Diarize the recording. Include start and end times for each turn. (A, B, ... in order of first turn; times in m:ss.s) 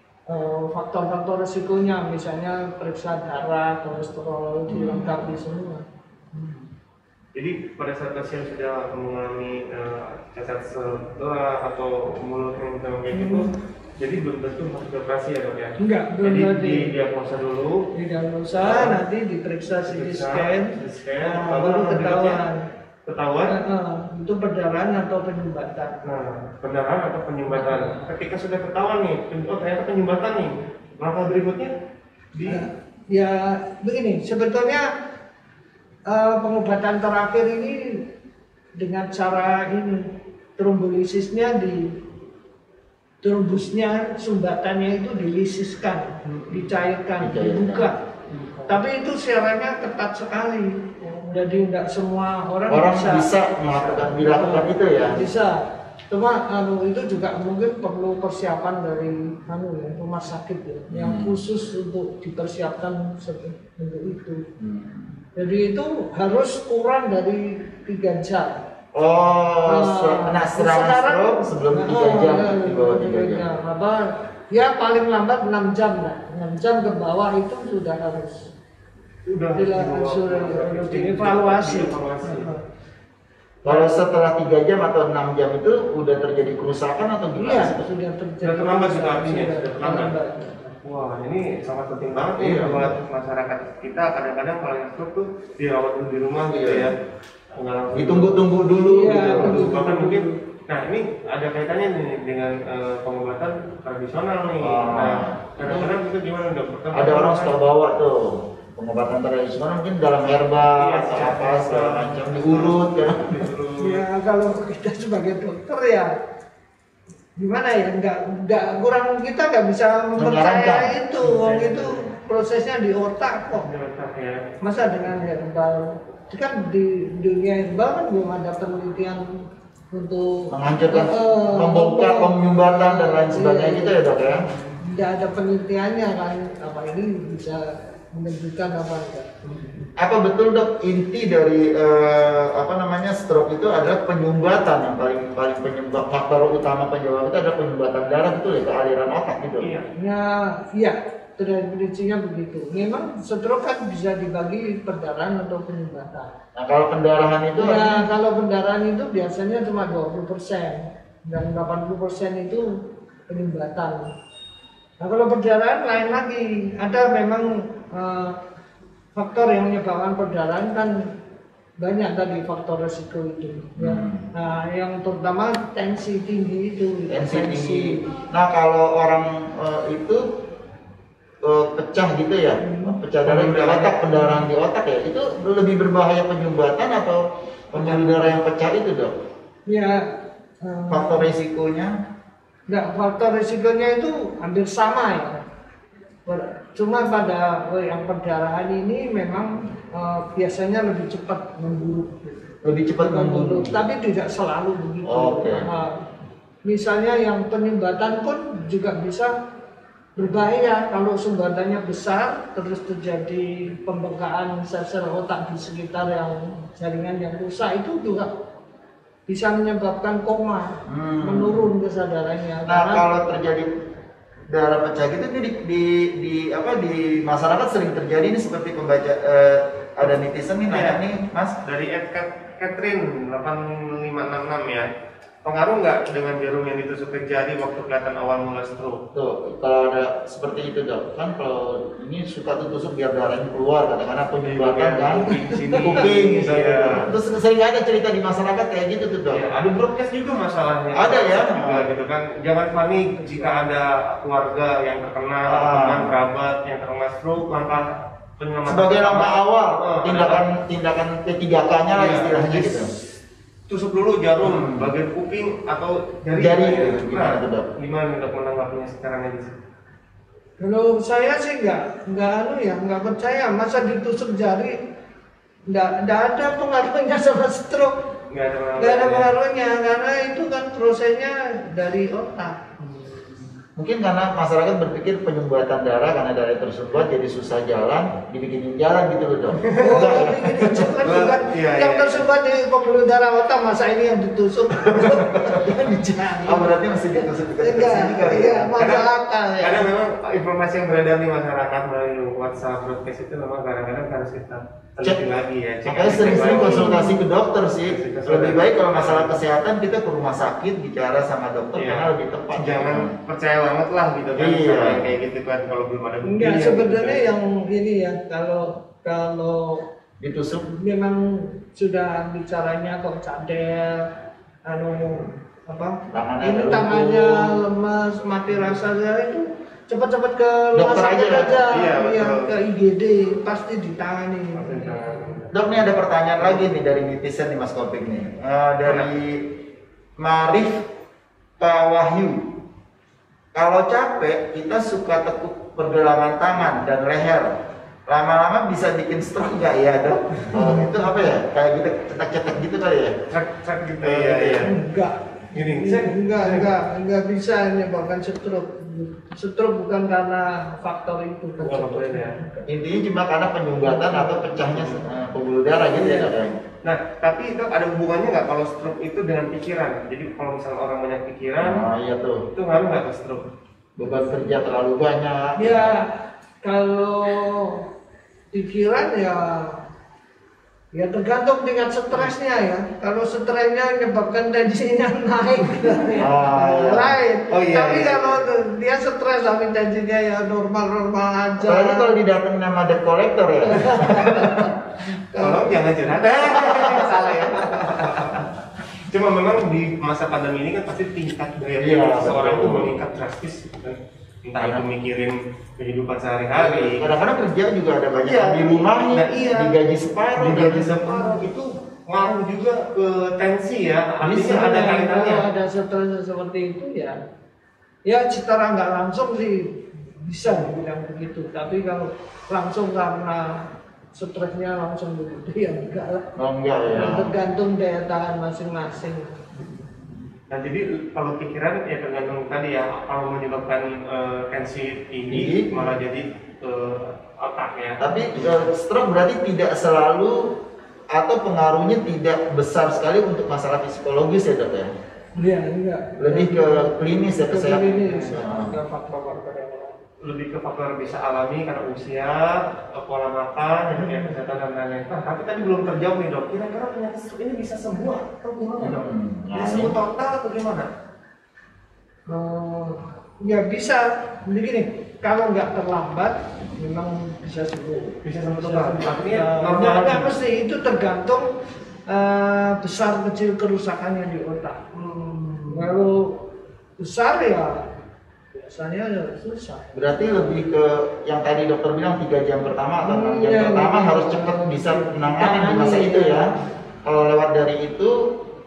0:00.3-0:06.6 A
0:04.7-0:05.4 B
0:07.3-0:17.8 C
0:13.1-0:13.5 A
0:15.8-0:16.9 A
0:17.9-0:22.6 A
0:18.6-0:19.0 C
0:19.7-0:22.4 C
0:23.0-0:23.5 C
0:23.5-0:26.0 A
0:26.0-0:31.7 C
0:27.5-0:28.1 A
0:32.3-0:32.7 C
0:32.4-0:34.8 A
0:36.1-0:38.0 A
0:38.8-0:41.8 A
0:43.2-0:48.0 A
0:46.2-0:46.7 C
0:47.2-0:47.9 B
0:48.3-0:48.8 C
0:48.7-0:53.3 A
0:52.7-0:55.2 B
0:53.8-0:54.1 C
0:53.9-1:04.4 A
1:00.9-1:01.3 B
1:04.6-1:05.2 B
1:05.4-1:08.5 A
1:08.9-1:13.4 B
1:09.7-1:18.5 A
1:19.3-1:22.5 C
1:19.5-1:22.6 A
1:23.6-1:27.9 B
1:23.6-1:24.0 C
1:27.4-1:30.8 A
1:28.4-1:30.1 C
1:30.8-1:37.0 C
1:32.4-1:33.0 B
1:36.5-1:36.9 B
1:37.5-1:38.4 C
1:37.9-1:39.6 B
1:38.8-1:40.4 A
1:39.4-1:47.6 C
1:44.6-1:45.9 B
1:46.9-1:48.1 B
1:48.8-1:53.4 B
1:50.8-1:54.0 C
1:53.8-1:56.1 A
1:57.4-2:03.7 A
2:00.2-2:00.9 B
2:01.2-2:02.1 C
2:03.5-2:04.5 C
2:04.6-2:09.2 A
2:09.9-2:19.3 A
2:10.5-2:14.4 B
2:14.5-2:14.8 C
2:19.4-2:19.9 C
2:20.0-2:29.7 B
2:29.6-2:29.9 C
2:30.0-2:36.3 A
2:36.5-2:38.1 B
2:37.6-2:42.6 A
2:43.3-2:44.0 A
2:45.0-2:48.4 A
2:49.1-2:51.0 A
2:51.8-2:58.1 A
2:53.8-2:54.2 B
2:57.1-3:00.2 B
3:01.4-3:07.2 B
3:02.6-3:03.0 A
3:03.2-3:04.0 C
3:04.1-3:04.4 A
3:07.7-3:09.1 B
3:07.7-3:08.4 C
3:09.7-3:10.1 A
3:10.6-3:11.3 A
3:10.9-3:11.9 B
3:12.7-3:15.4 A
3:16.2-3:26.0 A
3:22.6-3:23.7 B
3:25.0-3:25.6 B
3:26.6-3:29.3 A
3:30.2-3:38.3 A
3:39.3-3:43.1 A
3:40.8-3:41.7 B
3:42.7-3:43.7 B
3:44.5-3:51.6 B
3:50.7-3:51.0 C
3:51.6-3:54.9 C
3:55.4-3:59.0 C
3:59.1-4:09.5 B
4:04.4-4:07.1 C
4:05.3-4:05.9 A
4:09.3-4:20.4 C
4:10.9-4:11.9 B
4:13.2-4:13.5 A
4:15.4-4:16.1 B
4:18.6-4:22.9 B
4:21.9-4:22.9 C
4:23.7-4:29.6 C
4:24.4-4:24.9 B
4:26.3-4:27.6 B
4:30.6-4:34.8 A
4:35.7-4:38.0 A
4:38.3-4:39.3 C
4:38.8-4:42.6 A
4:42.8-4:43.5 C
4:43.8-4:50.9 B
4:49.6-4:50.2 C
4:49.7-4:59.9 A
4:51.0-4:52.2 C
4:55.0-4:58.8 B
4:58.8-4:59.1 C
4:59.6-5:07.0 C
5:05.8-5:13.1 B
5:06.1-5:07.2 A
5:07.6-5:09.4 C
5:11.8-5:17.3 C
5:14.3-5:15.0 B
5:16.2-5:19.8 A
5:20.2-5:20.6 B
5:20.8-5:24.0 A
5:24.6-5:35.4 A
5:26.1-5:27.6 B
5:28.5-5:28.8 C
5:30.7-5:31.6 B
5:31.7-5:32.5 C
5:34.5-5:36.6 C
5:35.5-5:39.5 B
5:38.8-5:39.1 C
5:40.2-5:40.8 B
5:41.6-5:42.4 B
5:43.5-5:47.5 B
5:48.1-5:53.2 B
5:50.5-5:51.3 A
5:53.3-5:54.7 C
5:54.0-5:54.7 B
5:54.6-6:02.7 A
5:55.5-5:56.7 C
6:01.6-6:02.4 C
6:02.7-6:06.5 B
6:03.8-6:05.1 A
6:05.7-6:06.4 A
6:06.8-6:11.8 C
6:11.6-6:12.4 B
6:12.5-6:13.4 C
6:14.0-6:15.9 B
6:15.6-6:17.8 A
6:18.5-6:19.8 A
6:20.9-6:32.2 A
6:26.2-6:27.1 B
6:27.5-6:28.4 C
6:31.7-6:34.7 B
6:33.6-6:35.7 A
6:35.4-6:38.6 C
6:39.1-6:47.4 C
6:41.8-6:43.0 B
6:44.6-6:44.8 B
6:46.5-6:51.2 B
6:48.2-6:49.8 C
6:50.3-6:55.4 C
6:54.2-6:54.6 B
6:54.4-6:57.2 A
6:58.0-7:06.3 A
7:06.4-7:07.3 B
7:06.9-7:09.4 A
7:10.5-7:18.1 C
7:15.3-7:15.8 B
7:18.0-7:20.6 B
7:21.1-7:24.9 B
7:25.4-7:30.0 A
7:26.2-7:28.7 B
7:28.0-7:28.4 C
7:30.2-7:40.9 C
7:33.9-7:34.3 A
7:38.8-7:40.0 B
7:42.3-7:51.5 A
7:48.2-7:50.3 C
7:52.1-7:54.9 A
7:55.0-7:55.9 C
7:55.7-7:56.4 A
7:57.0-7:57.8 A
7:58.5-7:59.8 A
7:59.9-8:06.5 B
8:03.0-8:06.6 A
8:07.0-8:08.1 B